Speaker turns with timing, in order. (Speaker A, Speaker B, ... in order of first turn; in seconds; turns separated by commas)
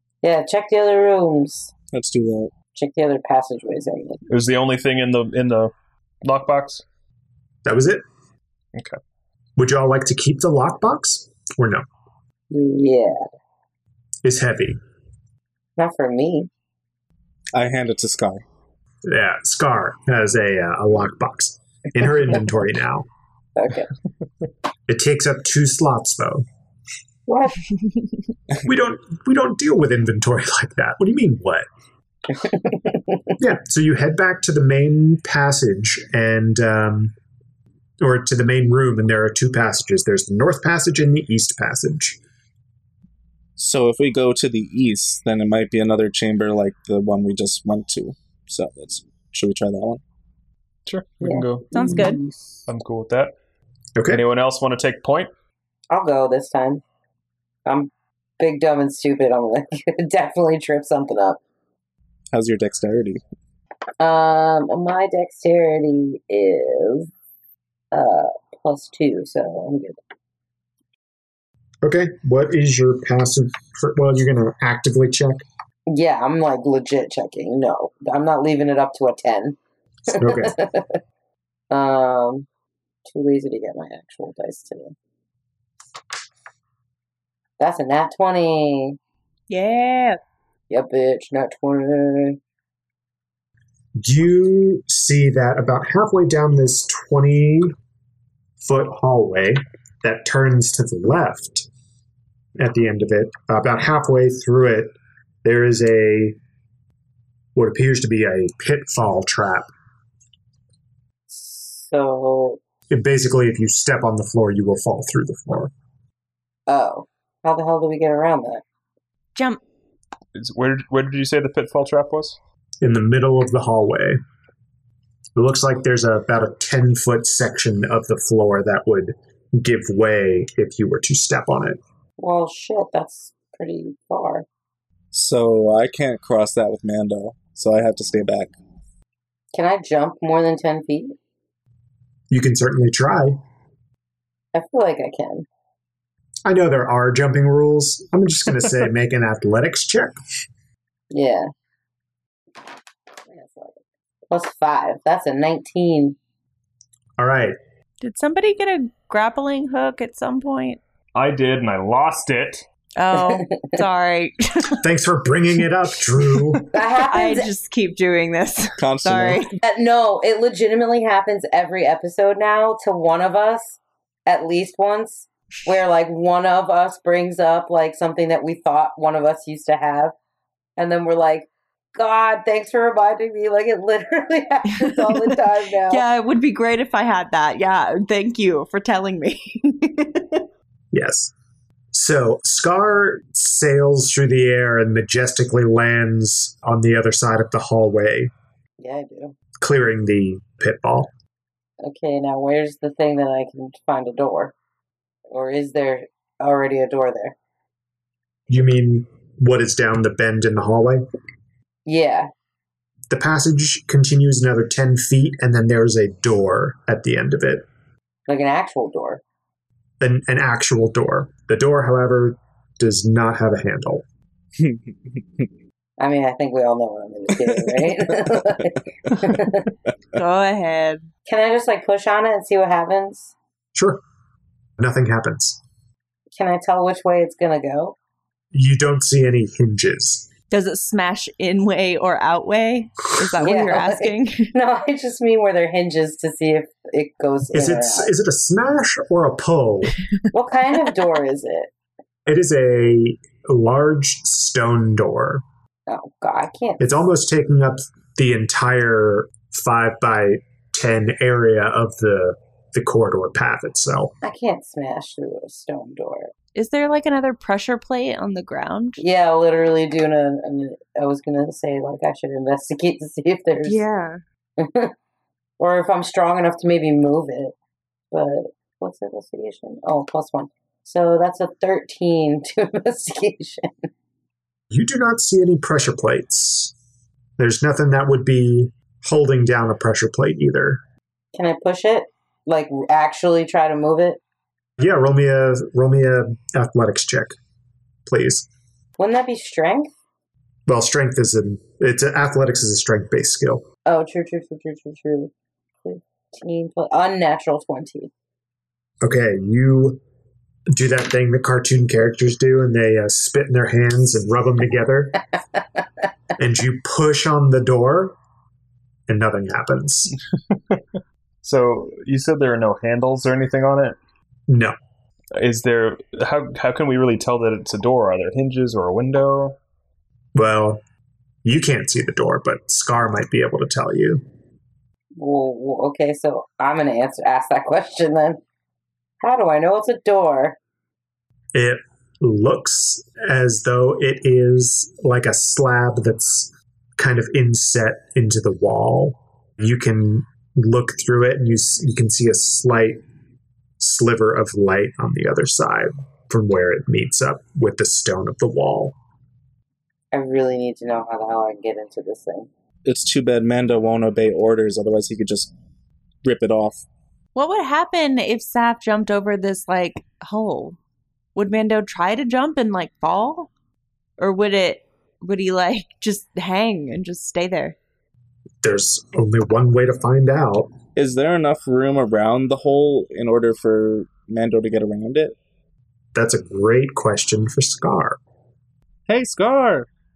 Speaker A: 0.2-1.7, Speaker B: 1.9-2.5, Speaker A: 2.7-4.2, Speaker C: 4.3-6.8, Speaker D: 7.6-8.0, Speaker D: 9.6-11.8, Speaker A: 12.5-13.2, Speaker D: 14.2-14.8, Speaker A: 15.8-16.5, Speaker B: 17.5-18.4, Speaker D: 19.0-23.1, Speaker A: 23.6-23.9, Speaker D: 24.9-26.4, Speaker A: 27.3-27.6, Speaker D: 28.6-31.6, Speaker A: 32.4-33.1, Speaker D: 33.4-37.1, Speaker D: 38.0-42.2, Speaker B: 43.6-50.0, Speaker C: 50.9-51.9, Speaker A: 51.2-52.3, Speaker E: 51.7-52.2, Speaker C: 52.7-53.3, Speaker D: 54.0-54.2, Speaker C: 54.1-55.3, Speaker A: 55.9-56.8, Speaker A: 57.6-61.4, Speaker B: 62.3-63.2, Speaker A: 64.0-67.1, Speaker A: 67.9-70.0, Speaker D: 71.8-75.4, Speaker A: 75.9-81.0, Speaker D: 80.1-80.5, Speaker A: 81.7-82.5, Speaker A: 83.0-84.9, Speaker A: 87.6-89.0, Speaker E: 89.5-90.2, Speaker A: 90.7-92.4, Speaker D: 94.0-97.7, Speaker D: 98.6-101.7, Speaker D: 102.6-106.4, Speaker D: 107.5-109.7, Speaker A: 111.3-112.6, Speaker D: 112.9-115.7, Speaker A: 116.7-118.6, Speaker E: 119.3-119.6, Speaker C: 120.3-122.4, Speaker D: 122.8-124.2, Speaker D: 125.3-131.8, Speaker A: 132.2-134.4, Speaker B: 135.1-138.5, Speaker A: 139.5-141.2, Speaker D: 142.3-143.4, Speaker A: 144.5-145.4, Speaker D: 146.4-150.2, Speaker A: 151.1-151.5, Speaker A: 153.3-156.2, Speaker D: 157.2-157.6, Speaker E: 158.0-160.8, Speaker C: 161.1-162.7, Speaker E: 162.9-164.8, Speaker A: 163.1-163.8, Speaker D: 164.8-166.7, Speaker E: 166.6-169.6, Speaker A: 166.7-167.5, Speaker B: 168.8-169.4, Speaker A: 169.6-180.1, Speaker A: 180.8-186.0, Speaker E: 184.8-185.3, Speaker E: 185.9-190.4, Speaker D: 190.9-191.3, Speaker D: 191.9-198.3, Speaker A: 198.8-199.3, Speaker D: 199.6-201.1, Speaker A: 201.8-204.5, Speaker A: 205.3-207.3, Speaker D: 208.5-211.0, Speaker A: 211.8-212.3, Speaker D: 213.1-217.7, Speaker A: 218.3-219.2, Speaker D: 220.0-224.0, Speaker A: 226.0-229.7, Speaker E: 230.1-231.1, Speaker A: 231.3-233.3, Speaker D: 233.7-234.0, Speaker D: 234.8-235.6, Speaker A: 236.3-237.9, Speaker D: 238.5-240.3, Speaker E: 240.5-244.5, Speaker A: 243.4-248.1, Speaker D: 247.5-249.9, Speaker A: 250.3-251.7, Speaker D: 252.2-255.4, Speaker A: 255.9-256.9, Speaker D: 256.8-264.1, Speaker A: 264.2-266.3, Speaker E: 266.5-269.0, Speaker A: 269.0-273.8, Speaker E: 273.6-274.2, Speaker A: 274.6-274.9, Speaker A: 275.6-277.5, Speaker A: 278.1-283.9, Speaker D: 284.7-286.7, Speaker D: 287.4-290.8, Speaker A: 291.3-294.2, Speaker D: 294.8-297.3, Speaker D: 298.1-298.5, Speaker A: 299.0-300.0, Speaker D: 300.7-303.6, Speaker A: 303.9-305.3, Speaker A: 305.8-308.1, Speaker D: 309.0-310.0, Speaker D: 310.7-315.2, Speaker D: 316.4-318.1, Speaker D: 319.1-320.1, Speaker C: 320.5-320.8, Speaker C: 321.4-324.0, Speaker D: 324.5-324.7, Speaker C: 325.4-329.6, Speaker D: 330.3-330.8, Speaker D: 331.4-334.2, Speaker A: 335.2-338.4, Speaker A: 339.2-340.6, Speaker D: 341.5-353.0, Speaker D: 353.8-358.9, Speaker A: 360.1-362.5, Speaker B: 362.8-365.5, Speaker B: 366.2-366.8, Speaker E: 367.3-370.8, Speaker E: 371.3-373.5, Speaker E: 374.2-377.8, Speaker D: 378.6-380.7, Speaker B: 380.9-385.4, Speaker D: 386.1-388.2, Speaker B: 389.1-389.9